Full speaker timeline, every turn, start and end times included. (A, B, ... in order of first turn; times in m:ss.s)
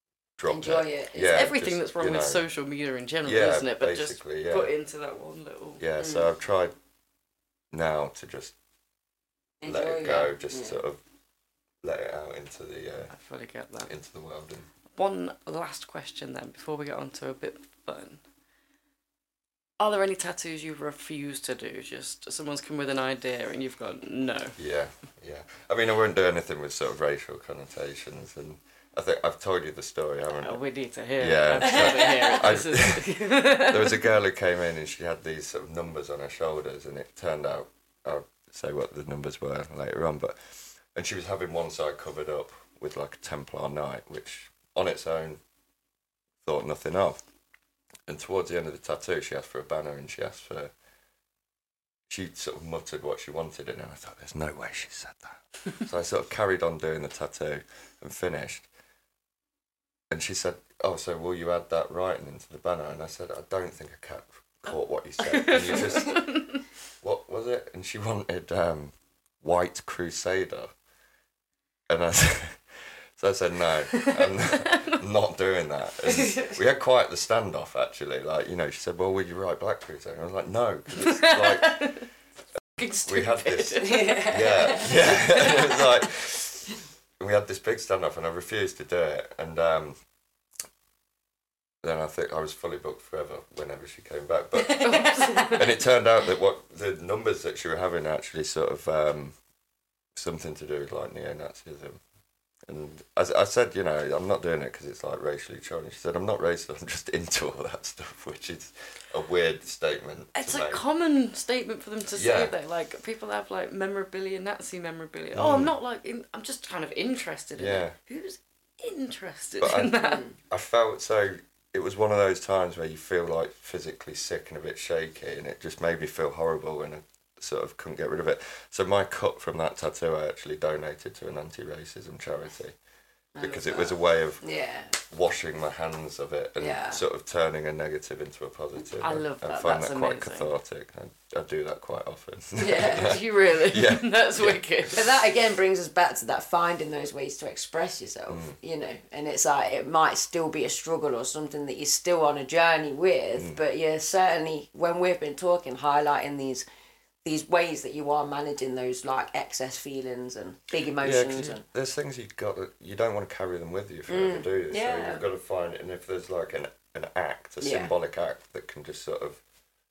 0:00.4-0:02.4 A
0:00.5-0:01.5 B
0:01.3-0:05.8 C
0:03.2-0:04.7 A
0:05.8-0:06.7 A
0:06.0-0:06.3 B
0:07.7-0:08.6 A
0:09.6-0:10.8 B
0:09.6-0:11.0 A
0:11.8-0:13.2 A
0:13.1-0:13.9 C
0:13.8-0:14.7 A
0:15.0-0:18.2 C
0:19.8-0:24.6 C
0:24.6-0:30.6 A
0:30.3-0:34.1 C
0:31.2-0:45.4 A
0:31.7-0:32.3 B
0:46.4-0:47.2 A
0:48.1-0:50.7 A
0:52.1-0:58.7 A
1:00.1-1:06.4 A
1:05.2-1:06.6 C
1:07.0-1:10.7 A
1:11.9-1:22.0 A
1:21.1-1:22.1 C
1:22.8-1:24.3 C
1:22.9-1:30.0 A
1:23.8-1:25.2 B
1:31.8-1:39.4 A
1:34.7-1:35.8 C
1:34.9-1:35.5 B
1:40.2-1:42.0 A
1:42.7-1:50.8 A
1:50.4-2:00.2 C
1:52.1-1:52.5 A
1:55.4-1:55.7 A
1:57.6-1:58.0 A
1:59.6-1:59.9 A
2:00.0-2:00.4 B
2:00.5-2:12.8 A
2:13.4-2:15.0 B
2:13.4-2:14.5 A
2:15.0-2:24.9 A
2:16.6-2:17.0 B
2:19.0-2:20.5 C
2:22.6-2:23.6 B
2:22.9-2:25.1 C
2:24.9-2:36.7 B
2:28.3-2:28.6 A
2:33.4-2:33.6 A
2:37.2-2:41.6 B
2:41.0-2:49.4 A
2:44.1-2:45.2 B
2:47.6-2:47.9 B